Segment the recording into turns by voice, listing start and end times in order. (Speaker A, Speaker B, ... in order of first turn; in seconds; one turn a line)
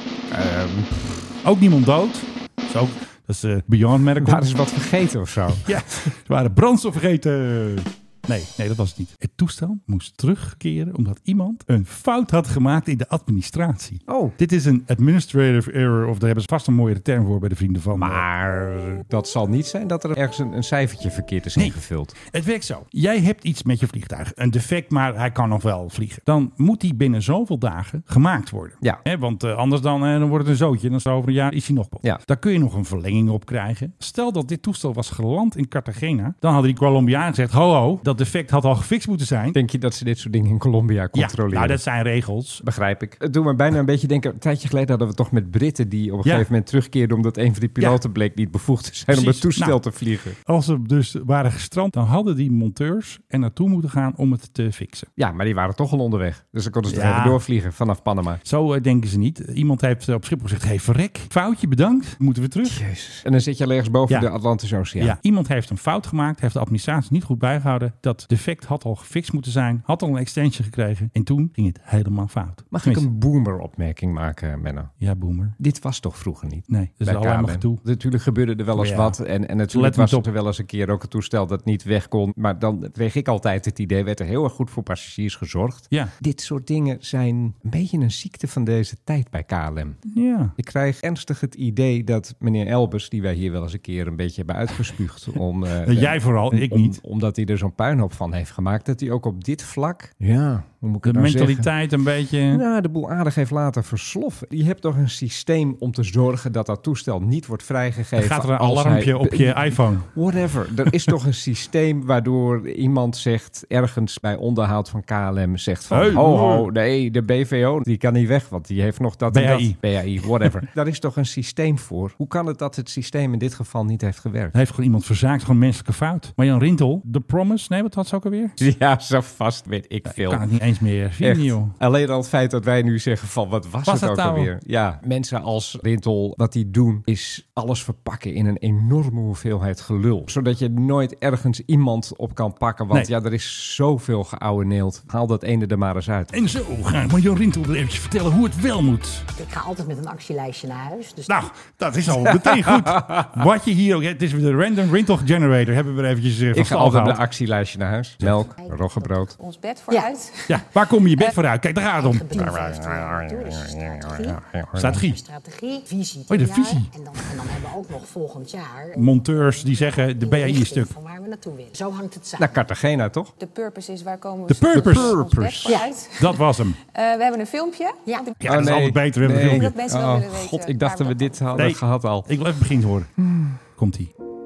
Speaker A: 0.3-1.3
Speaker B: 1.4-4.5
Speaker A: 4.2-5.8
Speaker B: 5.6-18.2
Speaker A: 14.1-14.4
Speaker A: 17.9-22.1
Speaker B: 21.6-39.6
Speaker A: 39.5-41.8
Speaker B: 41.1-42.6
Speaker A: 42.6-50.4
Speaker B: 49.1-49.8
Speaker B: 50.4-55.1
Speaker A: 55.2-58.4
Speaker B: 56.9-57.4
Speaker B: 58.4-62.8
Speaker A: 62.6-65.2
Speaker B: 65.0-73.0
Speaker A: 72.7-74.9
Speaker B: 75.0-75.6
Speaker A: 75.6-90.0
Speaker B: 76.7-77.8
Speaker B: 78.8-79.2
Speaker B: 79.7-80.3
Speaker B: 90.1-90.5
Speaker A: 90.6-101.7
Speaker B: 95.8-97.0
Speaker B: 101.0-102.6
Speaker A: 102.5-124.5
Speaker B: 108.2-110.1
Speaker B: 115.9-116.7
Speaker B: 119.3-120.5
Speaker B: 124.5-128.6
Speaker A: 128.6-130.4
Speaker B: 130.1-131.7
Speaker A: 131.2-146.4
Speaker B: 133.9-134.5
Speaker B: 146.3-149.2
Speaker C: 149.4-151.3
Speaker B: 151.3-157.2
Speaker A: 152.2-153.3
Speaker A: 156.5-159.3
Speaker C: 158.7-158.9
Speaker D: 159.4-160.1
Speaker C: 159.9-160.6
Speaker B: 160.5-162.3
Speaker C: 161.9-164.4
Speaker A: 162.3-165.0
Speaker B: 164.8-165.2
Speaker C: 164.9-172.6
Speaker B: 166.3-166.9
Speaker B: 168.9-170.9
Speaker A: 172.4-173.3
Speaker D: 173.4-174.6
Speaker B: 174.5-175.3
Speaker C: 174.6-176.4
Speaker A: 174.7-175.8
Speaker D: 175.2-176.1
Speaker B: 176.2-176.8
Speaker D: 176.9-177.9
Speaker C: 178.0-178.3
Speaker B: 178.4-179.7
Speaker A: 178.4-182.3
Speaker C: 179.4-181.3
Speaker D: 179.7-180.9
Speaker B: 181.6-183.1
Speaker A: 183.2-183.6
Speaker B: 183.8-184.1